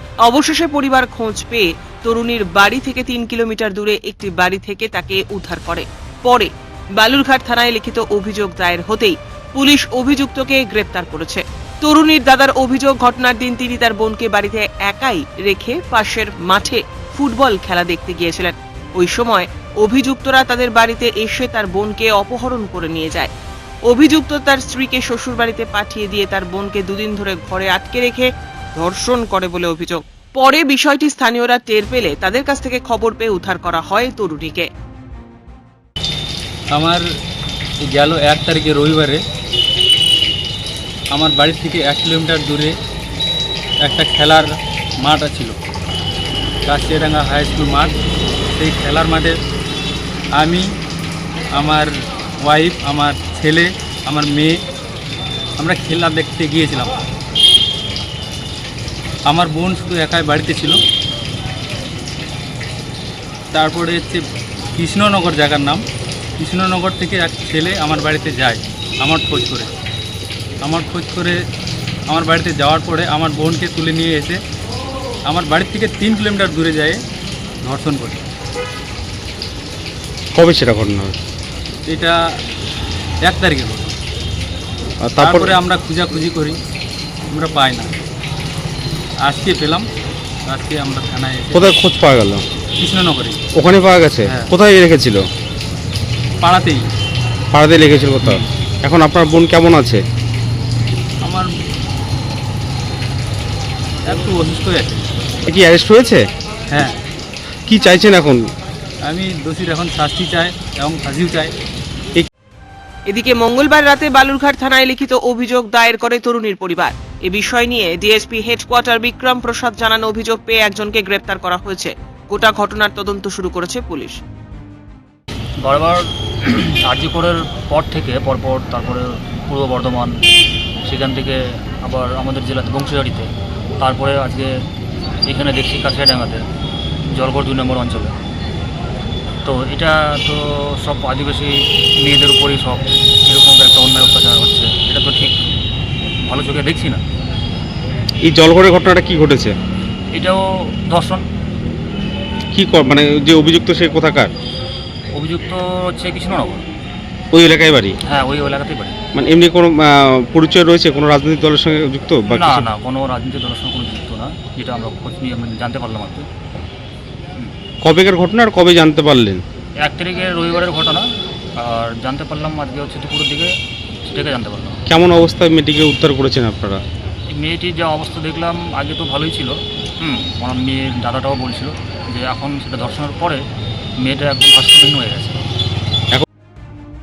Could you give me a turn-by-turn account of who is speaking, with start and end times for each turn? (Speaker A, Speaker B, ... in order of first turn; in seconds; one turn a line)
Speaker A: 0.2-23.3
Speaker A: 23.8-34.7
Speaker B: 36.7-37.0
Speaker B: 37.9-39.2
Speaker B: 41.1-42.7
Speaker B: 43.8-45.6
Speaker B: 46.6-48.0
Speaker B: 48.5-49.4
Speaker B: 50.3-50.7
Speaker B: 51.5-51.9
Speaker B: 52.4-54.6
Speaker B: 55.6-56.9
Speaker B: 59.2-60.8
Speaker B: 63.5-64.2
Speaker B: 64.7-65.8
Speaker B: 66.4-69.7
Speaker B: 70.6-71.4
Speaker B: 72.1-74.4
Speaker B: 75.3-77.0
Speaker B: 77.6-78.2
Speaker C: 80.3-81.2
Speaker B: 81.9-82.1
Speaker B: 83.2-84.0
Speaker C: 85.0-85.5
Speaker B: 85.2-86.6
Speaker B: 87.3-87.9
Speaker B: 89.2-89.8
Speaker B: 90.5-91.7
Speaker C: 91.5-92.4
Speaker B: 92.8-93.4
Speaker C: 93.5-95.2
Speaker B: 96.4-96.9
Speaker C: 97.5-100.0
Speaker B: 101.2-101.5
Speaker B: 104.0-105.1
Speaker C: 105.4-106.3
Speaker B: 106.7-107.0
Speaker C: 107.7-108.5
Speaker B: 109.0-111.5
Speaker A: 113.1-124.2
Speaker D: 125.6-130.1
Speaker D: 130.8-134.5
Speaker D: 135.2-136.4
Speaker D: 137.1-138.1
Speaker D: 139.4-145.4
Speaker D: 146.2-147.0
Speaker C: 148.2-149.5
Speaker D: 150.1-151.2
Speaker C: 152.5-154.3
Speaker D: 155.1-156.6
Speaker C: 157.3-158.0
Speaker D: 158.1-158.9
Speaker C: 159.1-162.7
Speaker D: 162.3-166.3
Speaker C: 167.8-169.4
Speaker D: 169.8-171.0
Speaker D: 171.6-173.5
Speaker D: 174.0-174.8
Speaker C: 174.9-176.8
Speaker D: 177.3-183.4
Speaker D: 184.0-185.4